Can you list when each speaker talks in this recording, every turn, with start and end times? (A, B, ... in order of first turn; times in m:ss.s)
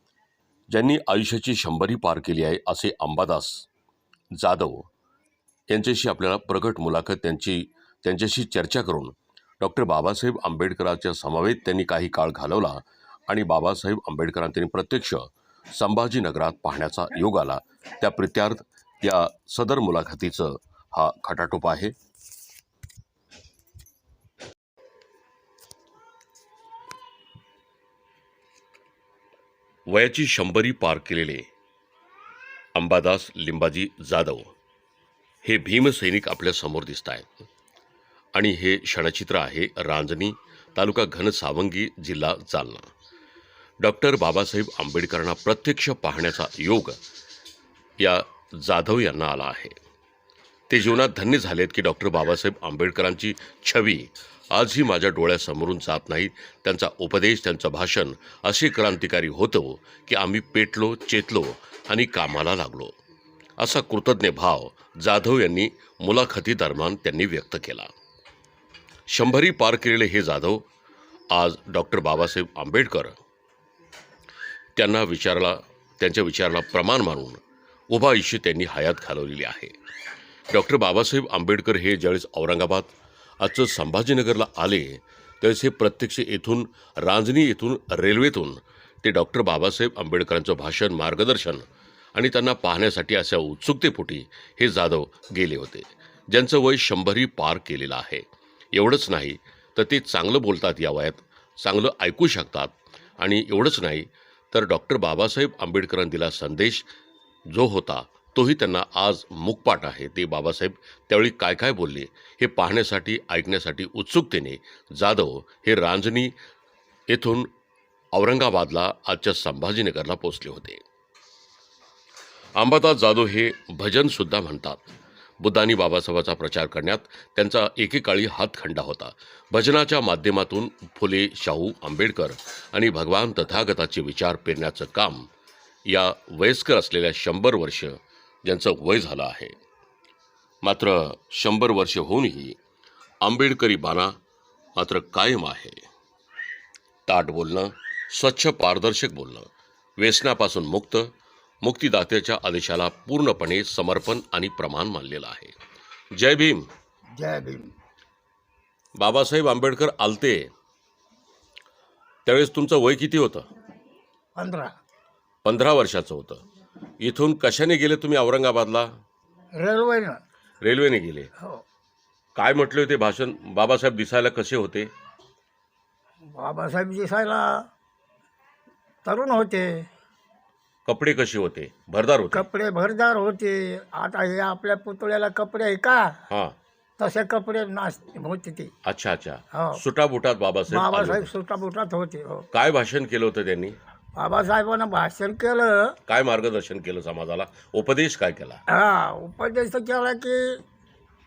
0:00.7-0:03.7 A
0:04.4-0:04.9 A
0:05.7-0:21.9 A
0:29.9-0:31.5 A
0:32.7-0:34.5 A
0:35.4-0:37.5 A
0:38.3-0:42.9 A
0:43.8-0:47.0 A
0:48.0-0:49.8 A
0:50.7-1:02.9 A
1:03.6-1:07.9 A
1:09.1-1:10.6 A
1:11.3-1:13.2 A
1:14.8-1:19.7 A
1:20.5-1:31.6 A
1:32.1-1:46.9 A
1:47.5-1:56.3 A
1:57.1-1:57.5 A
1:58.1-2:00.8 A
2:02.6-2:04.9 A
2:05.4-2:15.3 A
2:15.8-2:19.6 A
2:20.6-2:22.6 A
2:23.2-2:24.1 A
2:24.8-2:25.8 A
2:27.1-2:35.6 A
2:36.1-2:36.7 A
2:37.2-2:37.7 B
2:39.0-2:40.5 A
2:42.2-2:43.5 A
2:44.4-2:44.7 B
2:45.4-2:46.4 A
2:47.0-2:48.9 A
2:49.6-2:50.2 B
2:50.6-2:51.3 A
2:52.4-2:54.9 A
2:56.3-2:57.6 B
2:59.0-2:59.9 B
3:00.8-3:02.4 A
3:02.3-3:06.2 B
3:06.3-3:06.6 A
3:07.0-3:08.7 B
3:08.8-3:11.3 A
3:09.5-3:09.8 B
3:10.7-3:12.5 B
3:12.5-3:13.8 A
3:14.2-3:16.0 B
3:16.1-3:18.6 A
3:18.7-3:20.6 B